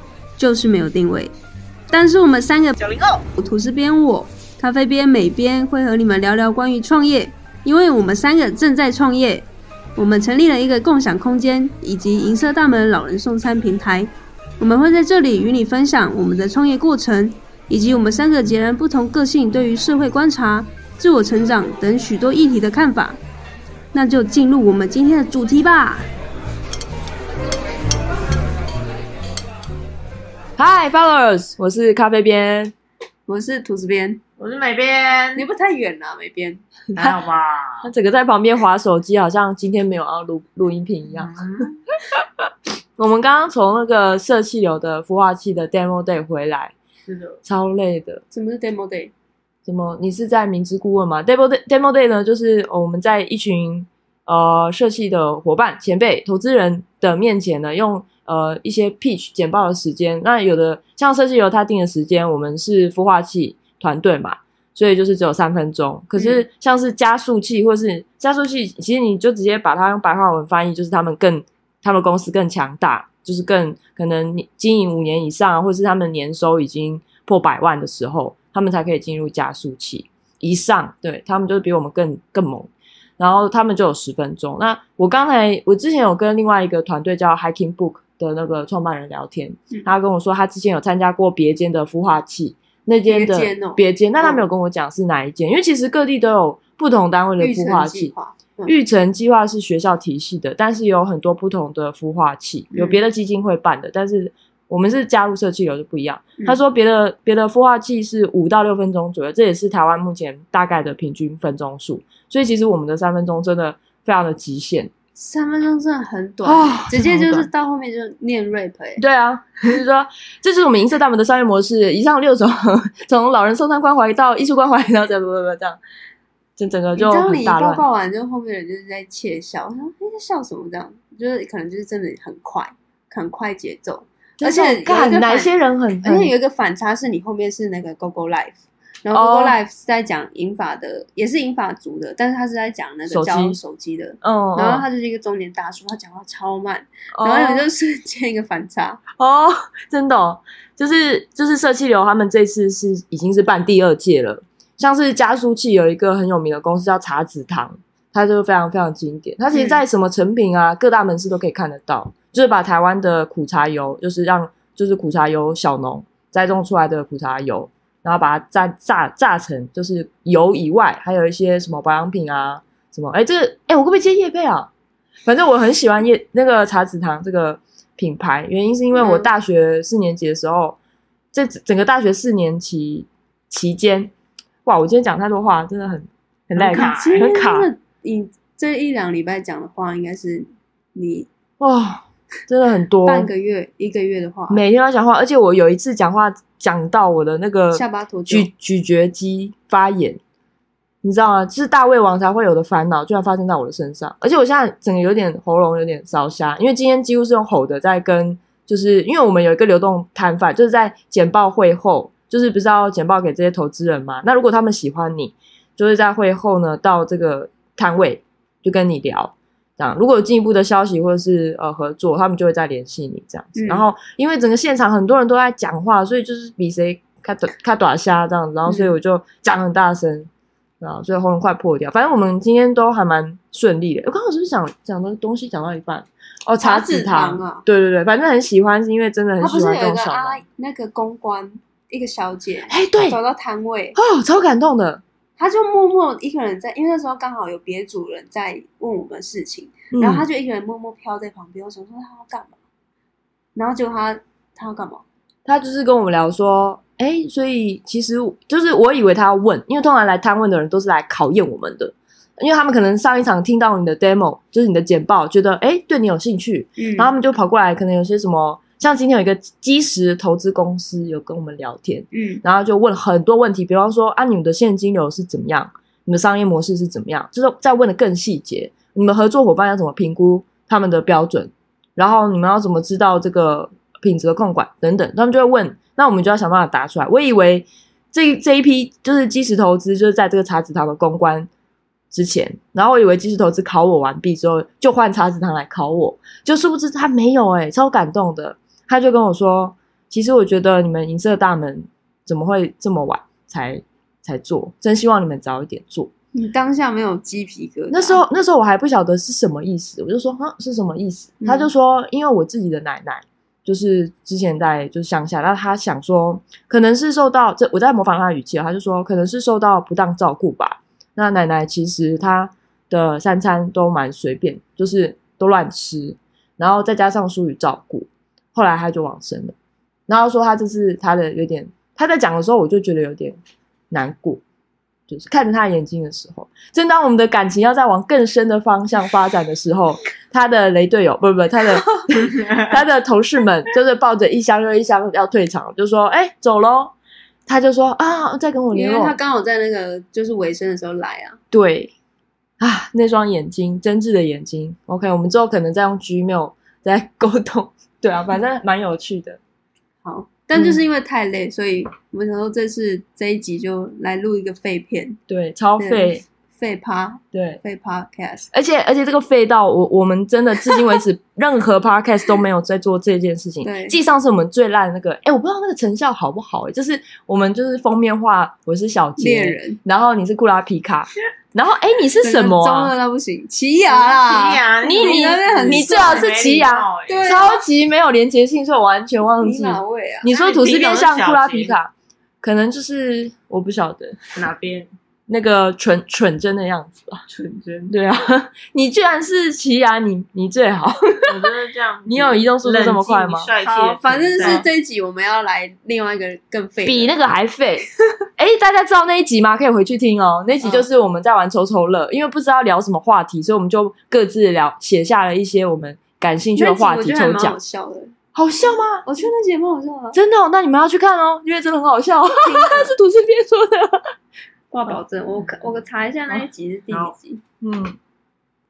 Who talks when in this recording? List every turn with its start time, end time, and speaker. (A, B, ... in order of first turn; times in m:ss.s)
0:00.4-0:01.3 A
0:01.9-0:02.8 A
0:02.8-0:03.2 B
0:03.4-0:23.2 A
0:23.9-0:26.0 A
0:30.6-0:32.7 C
0:33.3-0:34.2 A
0:34.4-0:35.4 B
0:35.4-0:36.6 A
0:36.9-0:37.9 B
0:37.8-0:41.3 C
0:41.1-0:41.8 B
0:42.1-0:46.7 C
0:47.0-0:47.4 B
0:47.4-0:48.2 C
0:48.3-0:49.1 A
0:49.7-1:38.1 C
1:06.2-1:06.4 A
1:33.1-1:34.4 A
1:37.4-1:38.8 A
1:38.7-1:54.9 C
1:42.7-1:43.0 A
1:55.2-1:59.0 A
1:56.4-1:57.5 C
1:59.0-2:05.8 C
2:06.6-2:07.8 C
2:07.0-2:15.5 A
2:14.4-2:16.3 C
2:16.0-2:29.0 A
2:19.1-2:19.5 C
2:23.1-2:23.6 C
2:24.2-2:24.8 C
2:27.1-2:27.7 C
2:29.2-2:54.7 C
2:39.5-2:39.8 A
2:55.2-3:00.8 C
2:58.9-2:59.3 A
3:01.3-3:04.1 C
3:04.6-3:07.7 C
3:06.6-3:07.0 B
3:06.7-3:11.3 A
3:11.6-3:13.3 C
3:13.0-3:14.6 A
3:14.5-3:20.2 C
3:17.7-3:18.5 A
3:21.0-3:50.3 C
3:43.5-3:43.8 A
3:48.7-3:48.9 A
3:50.8-4:00.4 C
3:56.6-3:57.7 A
3:59.4-4:04.0 A
4:02.7-4:03.2 C
4:03.9-4:05.0 C
4:05.4-4:12.6 A
4:09.9-4:10.3 C
4:13.6-4:15.0 A
4:15.4-4:51.5 C
4:26.8-4:27.1 A
4:32.1-4:32.4 A
4:52.1-5:06.1 C
5:06.3-5:08.2 A
5:07.9-5:29.6 C
5:11.4-5:11.7 A
5:30.1-5:33.4 C
5:33.9-5:34.4 C
5:35.1-5:46.9 C
5:47.5-5:49.1 C
5:48.7-5:51.4 A
5:51.5-5:51.9 C
5:52.6-5:59.4 C
6:00.0-6:05.2 A
6:00.6-6:00.8 C
6:05.3-6:06.2 C
6:05.8-6:08.5 A
6:07.3-6:07.6 C
6:08.5-6:22.9 C
6:13.6-6:14.0 A
6:19.2-6:19.8 A
6:22.2-6:26.5 A
6:23.9-6:27.4 B
6:24.8-6:34.2 C
6:27.1-6:27.6 A
6:29.4-6:30.3 A
6:30.3-6:31.8 B
6:34.3-6:34.9 B
6:35.3-6:37.2 C
6:37.3-6:37.9 B
6:37.9-6:41.5 C
6:41.3-6:44.6 B
6:42.1-6:43.5 C
6:43.6-6:47.1 A
6:44.4-6:44.6 C
6:46.8-6:57.6 C
6:56.6-6:58.1 A
6:58.3-6:59.3 C
6:59.0-7:00.2 A
7:00.1-7:04.1 C
7:02.4-7:02.9 A
7:04.7-7:07.4 A
7:07.6-7:08.0 C